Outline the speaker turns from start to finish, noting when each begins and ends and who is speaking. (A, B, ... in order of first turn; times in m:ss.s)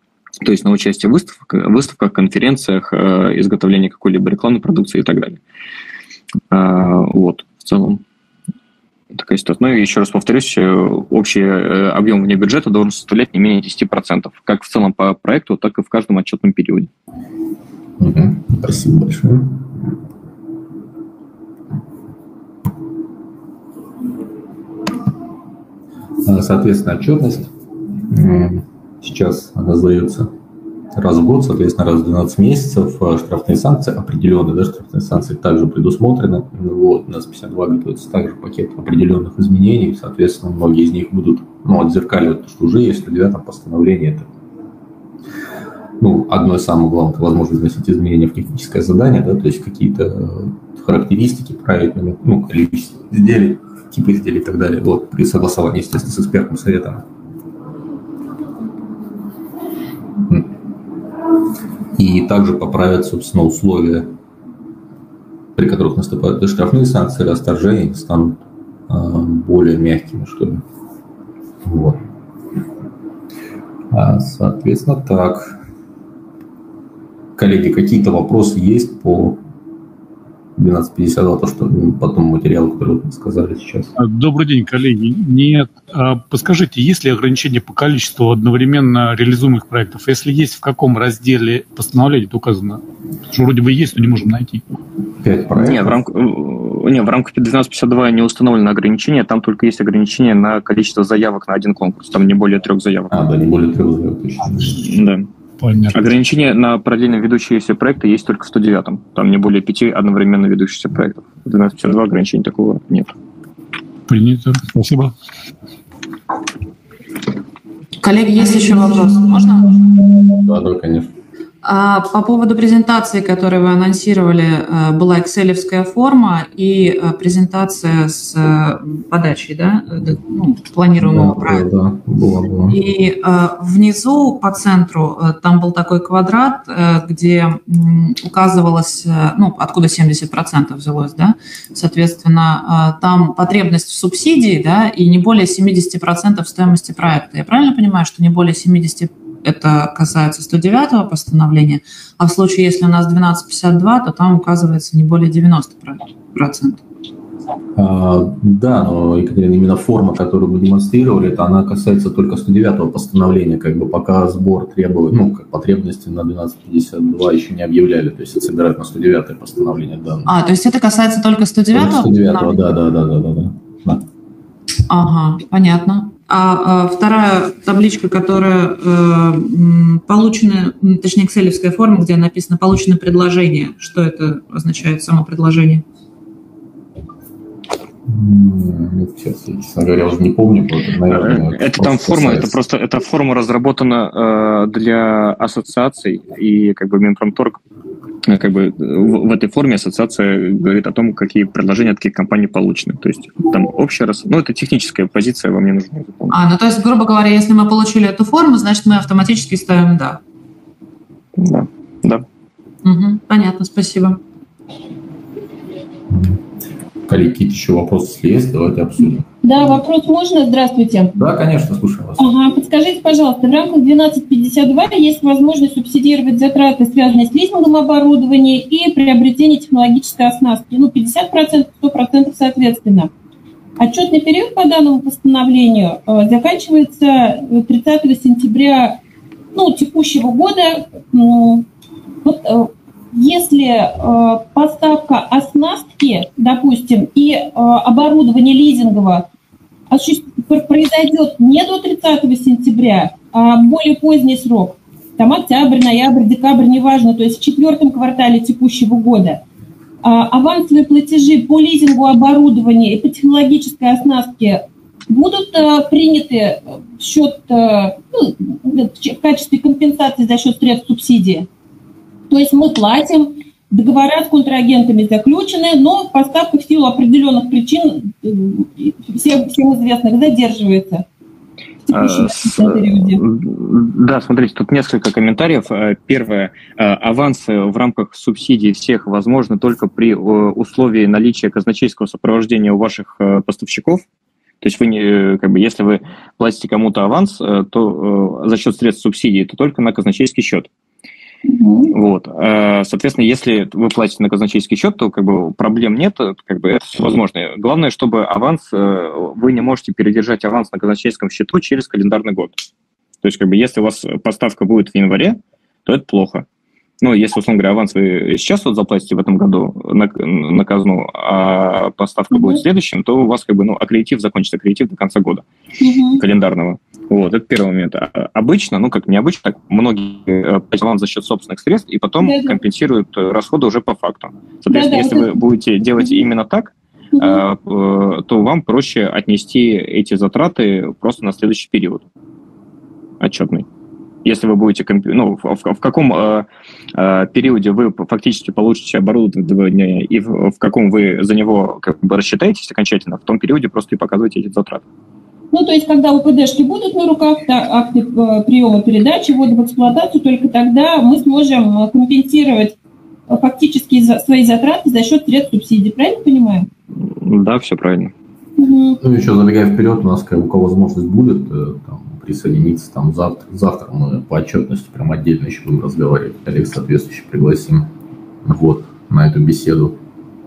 0:00.4-0:05.4 A
0:06.5-0:08.0 A
0:09.1-0:16.9 A
0:18.0-0:19.6 B
0:26.2-0:27.5 B
0:28.1-0:30.3 B
0:30.9-0:44.3 B
0:46.0-0:57.0 B
1:02.0-1:04.1 B
1:05.6-1:10.6 B
1:11.6-1:12.0 B
1:13.9-1:15.6 B
1:17.4-1:19.4 B
1:20.6-1:23.9 B
1:24.0-1:34.6 C
1:35.2-1:35.9 B
1:35.6-1:43.1 A
1:43.1-1:44.9 B
1:44.8-1:45.3 A
1:45.6-1:46.0 C
1:45.9-1:53.1 A
1:54.1-1:55.1 C
1:58.0-1:59.8 D
2:00.4-2:01.1 B
2:01.6-2:11.6 D
2:11.0-2:12.8 B
2:12.7-2:36.8 D
2:37.8-2:50.3 B
2:50.2-2:52.6 D
2:51.7-2:54.0 B
2:54.9-3:05.8 D
3:08.1-3:12.6 B
3:11.1-3:17.6 A
3:18.3-3:26.3 A
3:26.3-3:30.2 D
3:31.4-3:32.2 A
3:32.8-3:34.2 D
3:36.1-3:36.4 B
3:37.1-3:39.3 B
3:39.4-3:41.2 E
3:41.2-3:42.2 B
3:42.2-3:53.1 E
3:53.8-3:59.0 E
3:59.5-4:01.6 E
4:02.2-4:09.2 E
4:09.9-4:19.4 E
4:20.0-4:31.5 E
4:32.3-4:41.0 E
4:41.9-4:43.2 E
4:41.9-4:54.0 A
4:54.6-5:00.7 A
5:01.4-5:01.9 E
5:01.9-5:12.5 A
5:13.2-5:16.4 A
5:17.0-5:25.4 A
5:22.3-5:22.6 E
5:25.8-5:26.2 E
5:26.2-5:42.0 A
5:32.2-5:32.6 E
5:34.7-5:35.3 E
5:37.1-5:37.4 E
5:43.2-5:43.7 A
5:44.2-5:54.8 A
5:55.5-6:02.8 E
6:03.3-6:06.7 E
6:07.0-6:08.1 A
6:08.6-6:09.0 E
6:09.0-6:17.9 B
6:18.4-6:20.0 B